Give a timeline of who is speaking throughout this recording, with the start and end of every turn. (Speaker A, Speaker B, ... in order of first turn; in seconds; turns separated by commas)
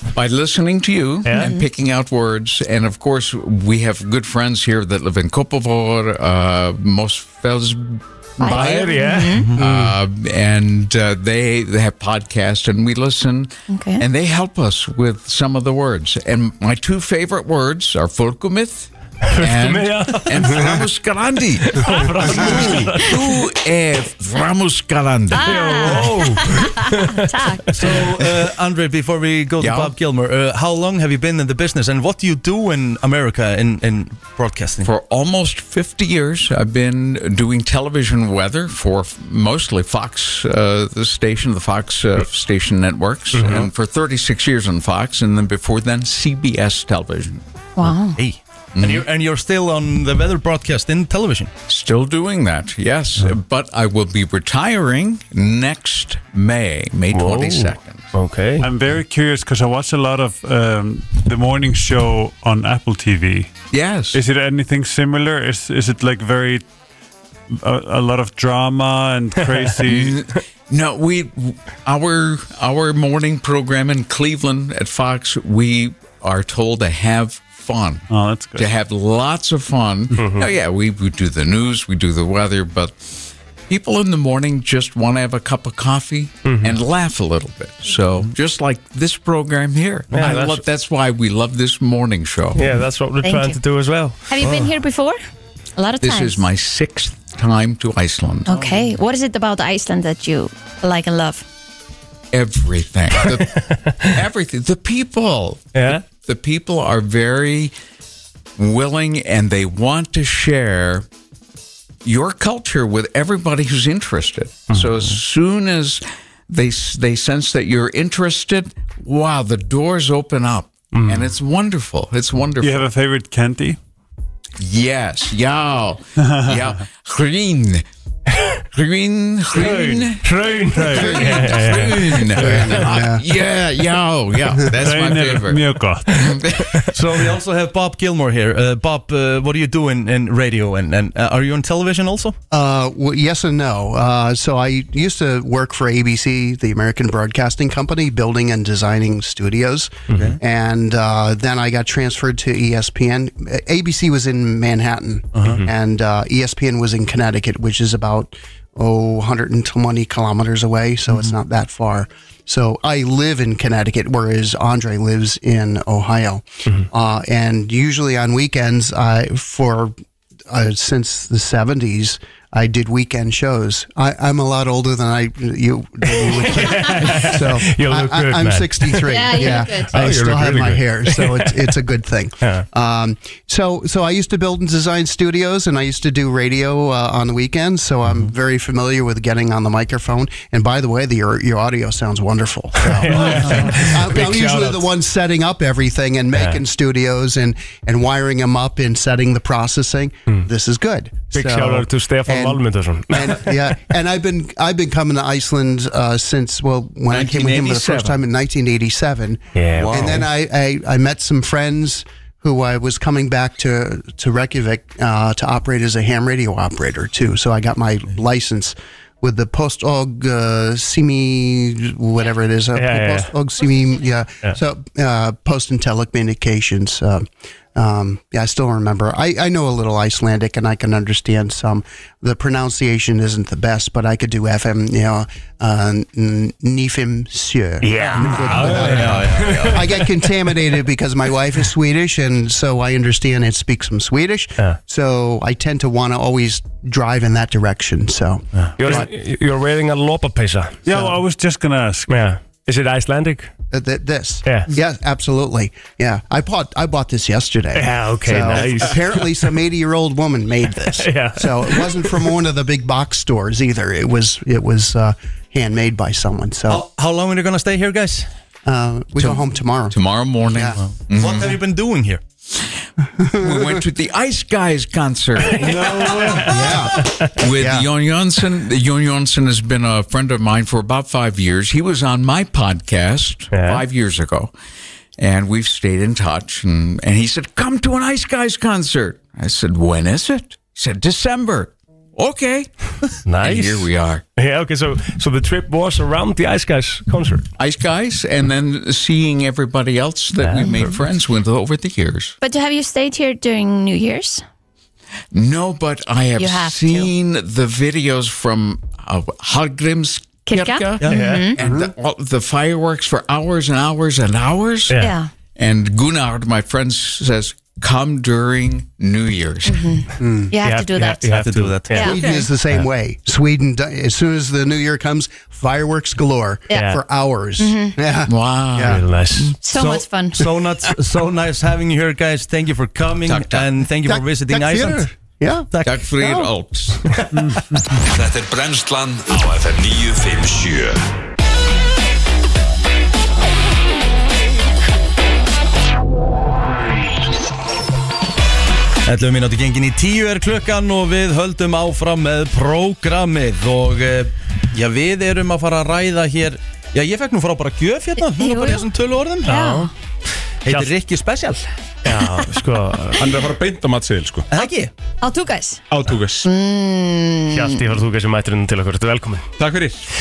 Speaker A: 0.1-25.6, Speaker B: 1.3-1.5, Speaker C: 8.4-9.5, Speaker B: 8.4-9.9, Speaker C: 13.7-14.0, Speaker B: 19.3-20.7, Speaker B: 21.6-23.4, Speaker C: 25.3-27.8, Speaker B: 25.4-27.2, Speaker D: 27.7-34.9, Speaker A: 29.6-29.9, Speaker A: 34.8-47.4, Speaker D: 43.4-43.7, Speaker C: 47.8-48.2, Speaker D: 47.8-51.5, Speaker A: 48.8-49.1, Speaker A: 51.7-58.0, Speaker B: 57.1-58.7, Speaker E: 58.6-63.5, Speaker A: 63.7-64.2, Speaker E: 64.1-66.6, Speaker E: 67.5-70.2, Speaker A: 69.8-92.6, Speaker E: 78.1-78.7, Speaker B: 80.2-80.5, Speaker B: 86.4-86.8, Speaker B: 90.1-90.6, Speaker B: 92.6-94.2, Speaker C: 93.2-93.6, Speaker C: 94.3-95.2, Speaker C: 95.8-96.4, Speaker A: 96.0-98.8, Speaker C: 98.5-101.5, Speaker A: 102.3-107.7, Speaker B: 105.8-106.0, Speaker A: 108.6-111.1, Speaker A: 112.0-122.9, Speaker B: 120.9-121.3, Speaker E: 122.6-123.8, Speaker A: 124.6-127.8, Speaker E: 126.2-126.6, Speaker A: 128.7-130.3, Speaker B: 129.6-132.2, Speaker E: 129.6-130.0, Speaker E: 130.5-132.8, Speaker A: 130.9-136.8, Speaker F: 132.4-133.2, Speaker E: 134.8-136.9, Speaker D: 136.9-142.4, Speaker F: 142.5-169.9, Speaker B: 150.1-150.4, Speaker D: 150.1-150.4, Speaker D: 155.4-155.6, Speaker F: 170.5-249.1, Speaker B: 176.1-181.7, Speaker C: 176.7-177.3, Speaker C: 179.1-179.9, Speaker B: 192.8-194.9, Speaker B: 201.3-203.8, Speaker A: 207.1-208.2, Speaker B: 209.6-210.2, Speaker D: 209.8-210.2, Speaker B: 222.8-223.3, Speaker B: 237.8-240.1, Speaker D: 238.5-240.0, Speaker B: 248.8-250.9, Speaker E: 250.9-252.1, Speaker B: 252.1-253.5, Speaker F: 253.7-266.9, Speaker B: 257.8-259.3, Speaker B: 260.9-262.2, Speaker D: 266.7-268.3, Speaker F: 268.7-270.8, Speaker A: 269.9-271.6, Speaker D: 270.8-272.2, Speaker A: 272.6-272.8, Speaker F: 273.2-273.8, Speaker A: 273.4-284.5, Speaker B: 275.5-277.3, Speaker E: 275.6-276.4, Speaker F: 275.8-277.9, Speaker B: 283.5-283.8, Speaker A: 285.2-294.2, Speaker B: 293.2-297.5, Speaker A: 297.6-302.4, Speaker B: 300.4-300.9, Speaker C: 302.4-304.4, Speaker A: 305.3-315.0, Speaker C: 306.4-307.1, Speaker C: 310.5-311.6, Speaker B: 311.1-311.5, Speaker F: 311.6-311.9, Speaker B: 314.9-315.1, Speaker C: 315.0-315.3, Speaker A: 315.6-319.9, Speaker C: 319.7-322.4, Speaker F: 320.2-320.5, Speaker B: 320.6-322.9, Speaker D: 321.3-322.2, Speaker F: 321.9-329.0, Speaker C: 326.7-327.0, Speaker B: 326.7-327.0, Speaker C: 327.6-328.0, Speaker A: 328.3-329.0, Speaker B: 328.9-329.6, Speaker C: 329.6-330.5, Speaker D: 329.7-335.1, Speaker A: 333.3-333.7, Speaker F: 334.0-335.7, Speaker D: 335.7-336.0, Speaker A: 335.8-337.1, Speaker E: 337.3-337.8, Speaker G: 338.1-341.0, Speaker D: 349.0-359.5, Speaker C: 358.2-358.9, Speaker C: 359.5-359.9, Speaker B: 359.5-359.9, Speaker D: 360.6-361.6, Speaker B: 360.7-360.9, Speaker B: 362.0-363.4, Speaker H: 363.2-364.5, Speaker D: 364.5-364.9, Speaker C: 365.2-365.8, Speaker H: 365.9-366.5, Speaker C: 366.4-367.8, Speaker B: 367.5-369.5, Speaker H: 369.6-370.1